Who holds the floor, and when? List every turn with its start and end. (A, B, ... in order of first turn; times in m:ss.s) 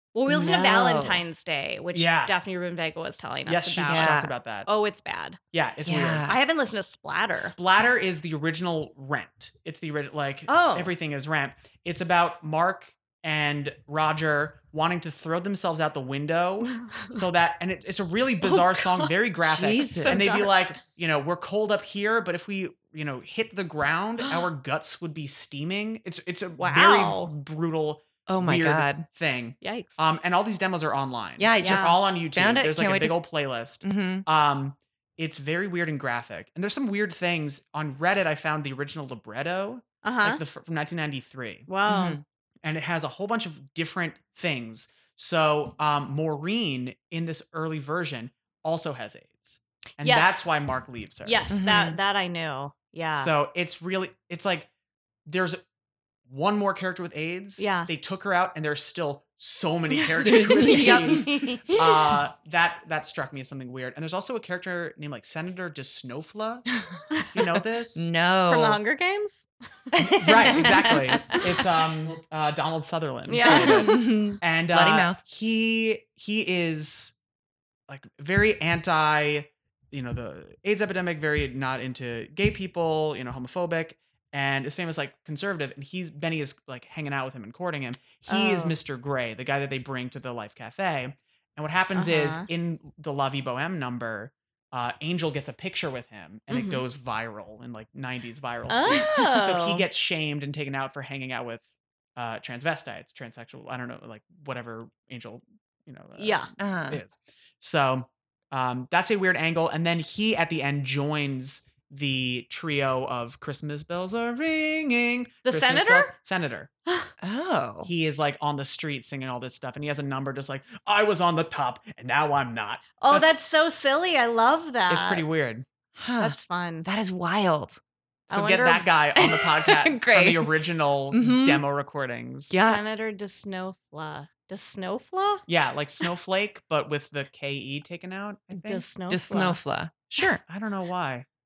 0:00.1-0:05.4 A
0:00.3-0:01.2 B
0:01.9-0:02.3 C
0:03.4-0:04.7 C
0:03.9-0:04.3 B
0:05.5-0:06.3 C
0:05.8-0:06.4 B
0:06.3-0:07.5 A
0:07.3-0:41.7 C
0:10.5-0:10.9 A
0:16.9-0:17.2 A
0:18.4-0:19.2 A
0:19.4-0:20.2 B
0:19.9-0:20.7 A
0:26.6-0:27.3 A
0:28.3-0:29.0 B
0:29.6-0:30.0 A
0:31.4-0:33.2 B
0:31.6-0:31.9 A
0:33.8-0:34.2 B
0:40.0-0:40.4 A
0:41.7-0:42.2 A
0:41.9-0:42.2 B
0:42.6-0:51.4 C
0:50.0-0:50.5 A
0:51.2-0:53.3 A
0:51.5-0:52.0 B
0:53.1-0:54.7 C
0:55.2-0:55.6 C
0:56.2-1:06.7 C
0:57.6-0:57.9 A
1:00.2-1:01.8 B
1:00.3-1:01.8 A
1:07.3-1:08.1 C
1:08.0-1:08.8 B
1:08.5-1:09.5 A
1:09.9-1:11.4 B
1:10.0-1:17.1 C
1:10.5-1:11.4 A
1:13.3-1:14.0 A
1:13.4-1:15.2 B
1:17.9-1:56.7 C
1:28.3-1:28.8 A
1:31.9-1:32.5 A
1:36.5-1:36.8 A
1:38.7-1:39.8 A
1:46.2-1:46.5 A
1:46.6-1:47.0 B
1:55.4-1:56.1 A
1:57.2-1:57.9 B
1:57.8-2:03.3 C
2:03.0-2:05.2 A
2:04.9-2:05.7 C
2:06.0-2:07.8 B
2:06.2-2:06.8 A
2:08.3-2:12.6 C
2:08.3-2:08.9 A
2:09.2-2:10.5 B
2:11.1-2:11.6 B
2:12.5-2:12.8 B
2:12.6-2:15.4 A
2:15.5-2:18.8 C
2:18.6-2:19.6 A
2:19.1-2:20.4 B
2:20.1-2:21.2 C